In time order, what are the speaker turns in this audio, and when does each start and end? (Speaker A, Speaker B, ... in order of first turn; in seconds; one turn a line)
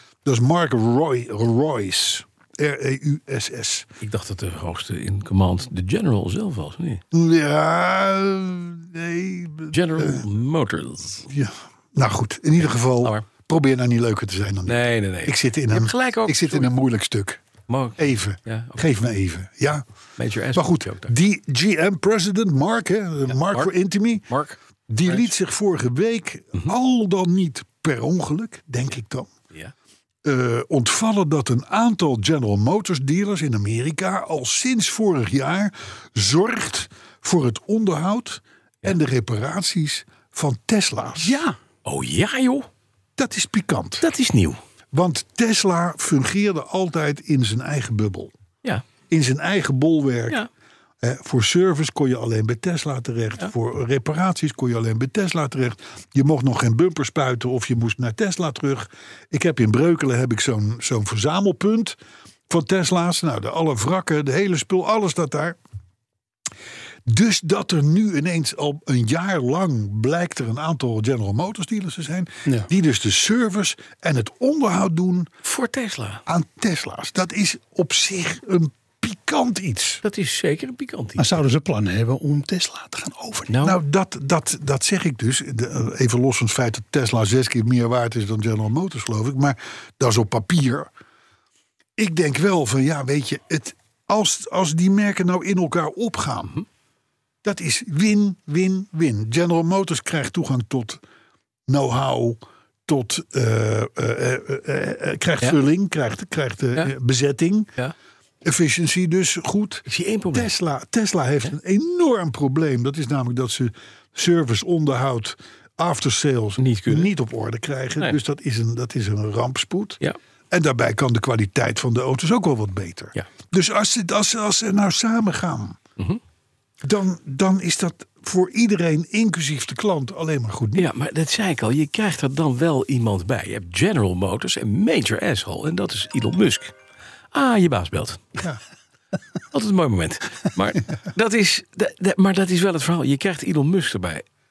Speaker A: 0.2-3.9
Speaker B: 4.0-7.0
Speaker A: 7.1-10.2
Speaker B: 9.7-11.3
Speaker A: 11.3-17.4
Speaker B: 12.6-13.2
Speaker B: 14.7-16.7
Speaker B: 17.7-18.8
Speaker A: 18.0-19.8
Speaker B: 20.2-21.1
Speaker A: 20.5-24.3
Speaker B: 23.3-23.7
Speaker B: 24.3-25.3
Speaker A: 24.9-29.3
Speaker A: 30.2-41.4
Speaker C: 41.2-41.5
Speaker B: 41.8-42.7
Speaker A: 43.2-44.1
Speaker B: 44.0-44.6
Speaker A: 44.9-48.3
Speaker A: 49.1-50.4
Speaker A: 51.0-62.0
Speaker A: 62.5-65.6
Speaker A: 67.0-75.3
Speaker B: 75.4-76.2
Speaker A: 76.2-80.0
Speaker B: 80.0-81.4
Speaker C: 81.2-83.5
Speaker B: 83.5-83.8
Speaker A: 83.6-90.9
Speaker A: 92.0-96.6
Speaker A: 97.4-101.0
Speaker A: 101.7-107.7
Speaker A: 108.4-125.8
Speaker B: 109.9-110.5
Speaker B: 116.6-117.1
Speaker A: 126.8-130.9
Speaker B: 130.8-136.7
Speaker B: 137.3-138.3
Speaker B: 139.5-144.2